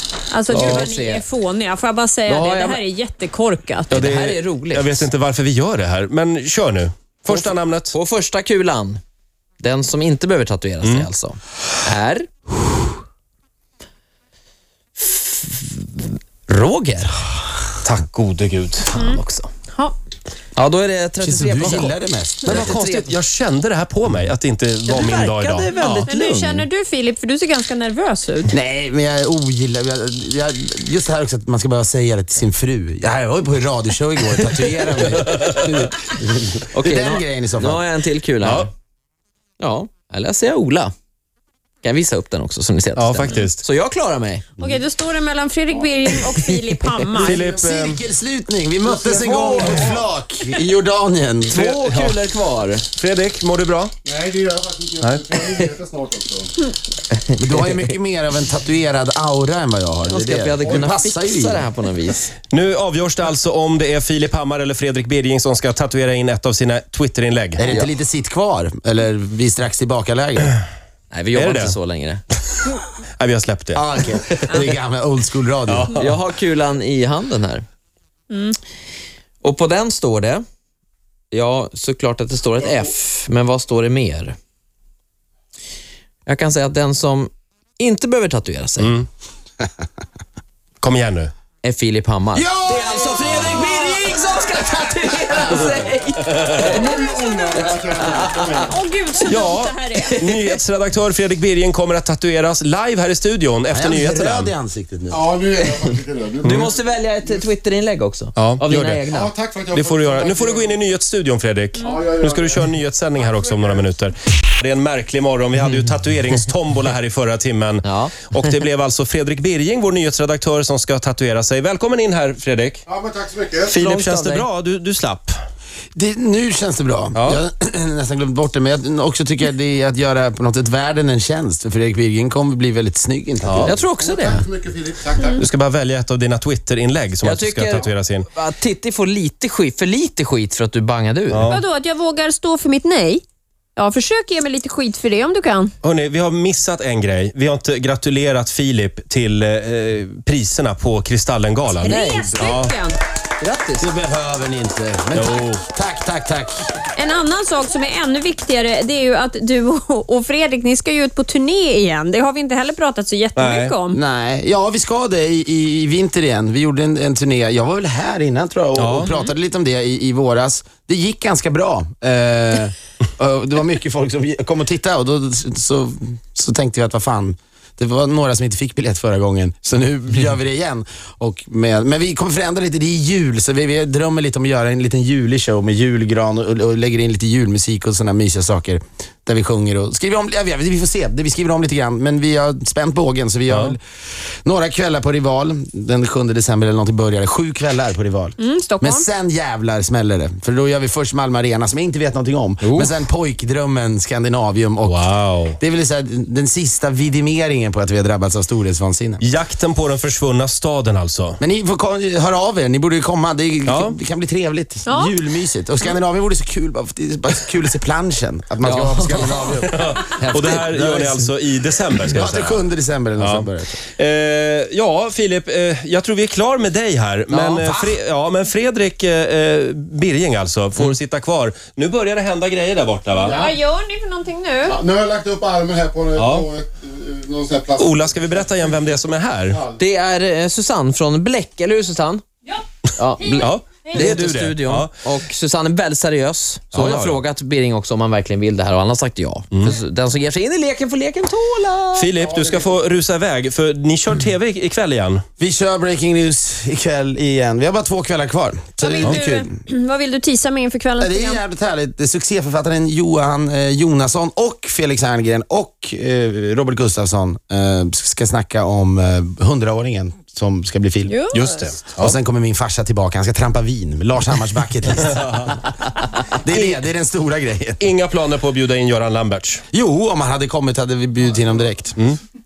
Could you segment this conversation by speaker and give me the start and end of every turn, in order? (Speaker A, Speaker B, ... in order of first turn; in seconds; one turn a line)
Speaker A: 0.3-3.9
Speaker B: 0.5-1.2
Speaker C: 0.5-0.9
Speaker B: 2.3-2.8
Speaker B: 3.9-5.1
Speaker C: 3.9-8.0
Speaker B: 7.3-9.0
Speaker B: 9.6-12.3
Speaker C: 10.8-11.1
Speaker B: 15.0-17.1
Speaker C: 17.8-18.9
Speaker B: 18.9-19.5
Speaker A: 18.9-19.9
Speaker B: 20.6-23.1
Speaker D: 21.2-22.7
Speaker C: 22.4-26.1
Speaker B: 24.9-26.6
Speaker A: 25.8-28.5
Speaker D: 28.5-37.9
Speaker C: 35.1-35.6
Speaker B: 36.7-38.7
Speaker C: 38.4-38.7
Speaker B: 39.6-40.9
Speaker B: 41.8-44.5
Speaker C: 43.0-43.6
Speaker A: 44.6-47.4
Speaker C: 47.1-48.0
Speaker D: 47.2-52.0
Speaker B: 49.0-50.0
Speaker B: 51.5-52.8
Speaker C: 52.9-53.9
Speaker E: 54.0-56.5
Speaker B: 55.3-55.7
Speaker D: 57.4-61.6
Speaker B: 60.0-62.3
Speaker C: 62.5-67.6
Speaker D: 67.6-70.5
Speaker B: 71.1-72.2
Speaker C: 71.3-71.8
Speaker C: 73.2-73.8
Speaker D: 73.7-75.9
Speaker C: 75.7-76.1
Speaker B: 76.0-77.6
Speaker A: 78.3-78.6
Speaker B: 79.4-80.4
Speaker B: 81.3-84.3
Speaker B: 86.2-89.0
Speaker C: 88.8-89.0
Speaker C: 90.8-91.3
Speaker B: 91.6-98.7
Speaker D: 92.3-95.8
Speaker C: 96.3-96.7
Speaker A: 96.7-97.8
Speaker E: 96.9-98.7
Speaker A: 98.5-100.1
Speaker C: 99.3-104.5
Speaker B: 100.0-100.5
Speaker D: 103.7-105.4
Speaker E: 105.1-106.7
Speaker B: 105.5-109.3
Speaker C: 106.4-106.7
Speaker C: 108.3-109.0
Speaker E: 109.1-110.7
Speaker C: 109.7-122.8
Speaker E: 111.8-112.4
Speaker B: 117.8-118.3
Speaker E: 122.9-123.5
Speaker C: 123.7-125.3
Speaker B: 123.7-124.5
Speaker D: 125.9-133.8
Speaker C: 127.1-127.4
Speaker C: 133.4-133.7
Speaker B: 133.6-134.5
Speaker E: 134.2-135.2
Speaker A: 135.2-135.4
Speaker C: 135.3-138.3
Speaker B: 137.2-141.5
Speaker C: 141.3-141.6
Speaker A: 141.4-143.2
Speaker A: 143.8-145.7
Speaker C: 145.8-152.7
Speaker A: 151.8-153.0
Speaker B: 151.8-152.5
Speaker B: 153.4-153.9
Speaker D: 153.8-156.6
Speaker C: 155.1-155.6
Speaker A: 157.0-164.0
Speaker C: 163.3-163.7
Speaker D: 163.9-193.8
Speaker C: 168.7-169.1
Speaker C: 193.5-193.7
Speaker D: 194.4-205.0
Speaker A: 198.4-199.0
Speaker B: 202.6-202.9
Speaker C: 204.8-205.6
Speaker D: 205.6-209.2
Speaker C: 209.2-211.4
Speaker D: 211.4-221.3
Speaker C: 213.7-213.9
Speaker A: 214.9-215.1
Speaker B: 218.6-219.6
Speaker C: 219.6-222.6
Speaker B: 220.1-220.7
Speaker D: 222.1-223.8
Speaker C: 223.2-233.5
Speaker B: 227.3-227.8
Speaker A: 233.2-234.8
Speaker E: 234.7-237.9
Speaker C: 236.1-236.5
Speaker C: 237.7-239.6
Speaker B: 239.7-242.2
Speaker B: 242.9-252.1
Speaker A: 243.2-243.5
Speaker C: 243.4-244.9
Speaker C: 246.7-247.2
Speaker C: 249.5-249.8
Speaker C: 251.9-255.2
Speaker D: 255.4-259.5
Speaker A: 258.8-261.4
Speaker D: 261.0-271.1
Speaker A: 271.1-271.6
Speaker C: 271.3-272.2
Speaker D: 271.9-275.6
Speaker C: 275.2-275.5
Speaker D: 276.3-277.8
Speaker C: 277.8-279.6
Speaker D: 279.7-282.0